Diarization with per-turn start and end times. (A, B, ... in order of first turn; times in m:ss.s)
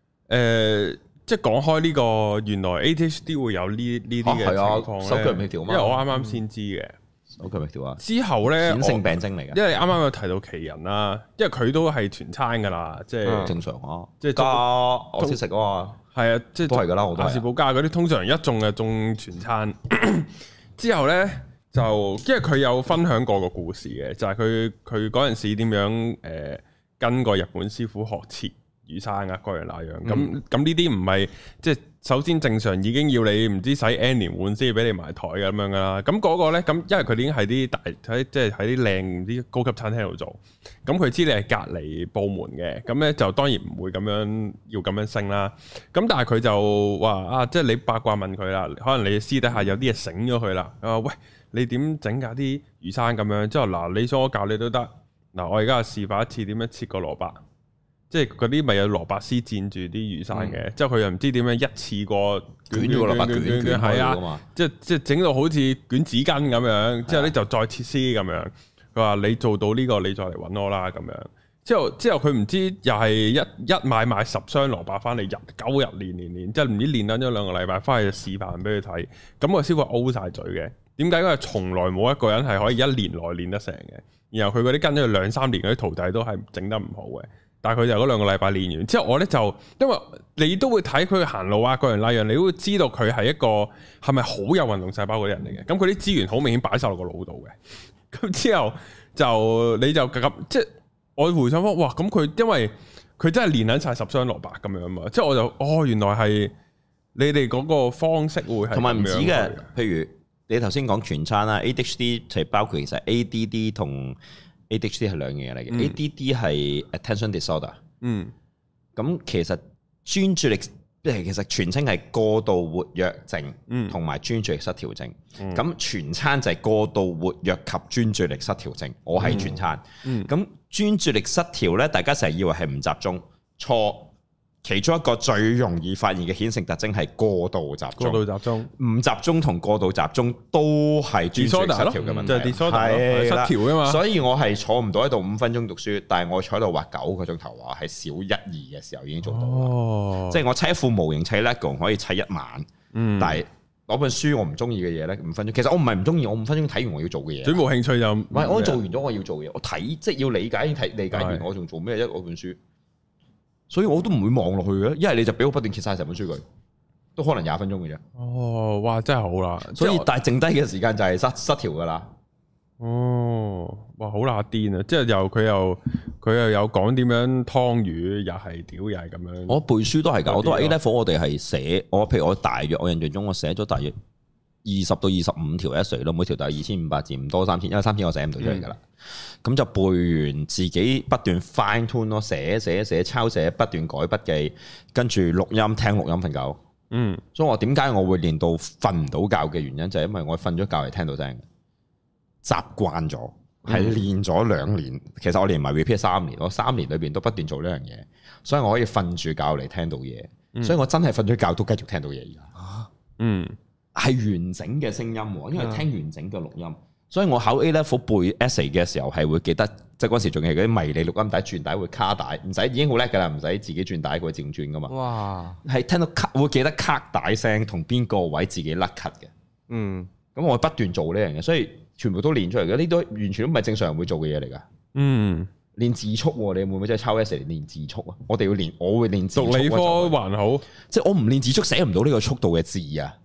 0:00.3-0:07.0 A
0:04.2-0:06.0 B
0:06.1-0:06.4 C
0:07.4-0:09.6 B
0:08.0-0:13.6 A
0:13.2-0:13.6 C
0:13.4-0:16.0 B
0:14.2-0:15.4 A
0:16.1-0:57.4 A
0:16.7-0:17.5 B
0:58.1-1:37.6 A
1:02.7-1:04.4 B
1:07.1-1:07.3 B
1:38.1-1:46.5 A
1:47.2-1:49.7 A
1:48.7-1:54.2 B
1:54.7-1:57.8 B
1:55.7-1:56.0 A
1:58.0-1:58.3 A
1:59.0-2:14.1 B
2:03.7-2:04.0 A
2:09.2-2:10.3 A
2:14.6-2:29.7 B
2:18.0-2:18.7 A
2:21.4-2:24.0 A
2:22.0-2:22.4 C
2:29.2-2:30.4 A
2:30.3-2:37.6 B
2:32.9-2:33.4 A
2:37.4-2:38.8 A
2:38.3-2:42.6 B
2:41.1-2:41.4 A
2:43.7-2:46.4 B
2:47.2-2:48.0 B
2:48.2-2:50.1 A
2:49.7-2:52.1 B
2:52.8-2:59.6 A
2:59.5-3:04.0 B
3:00.2-3:00.8 A
3:04.6-3:08.8 B
3:09.4-3:16.6 B
3:16.9-3:17.2 A
3:17.3-3:21.4 B
3:22.4-3:32.5 B
3:23.7-3:24.0 A
3:32.6-3:32.9 C
3:33.2-3:33.6 A
3:34.0-3:44.9 B
3:35.6-3:35.9 C
3:44.9-3:45.6 C
3:45.6-3:49.3 B
3:49.7-3:50.1 C
3:50.4-3:54.6 B
3:55.0-3:55.5 A
3:55.8-4:00.2 B
3:59.4-4:00.7 A
4:00.9-4:03.2 B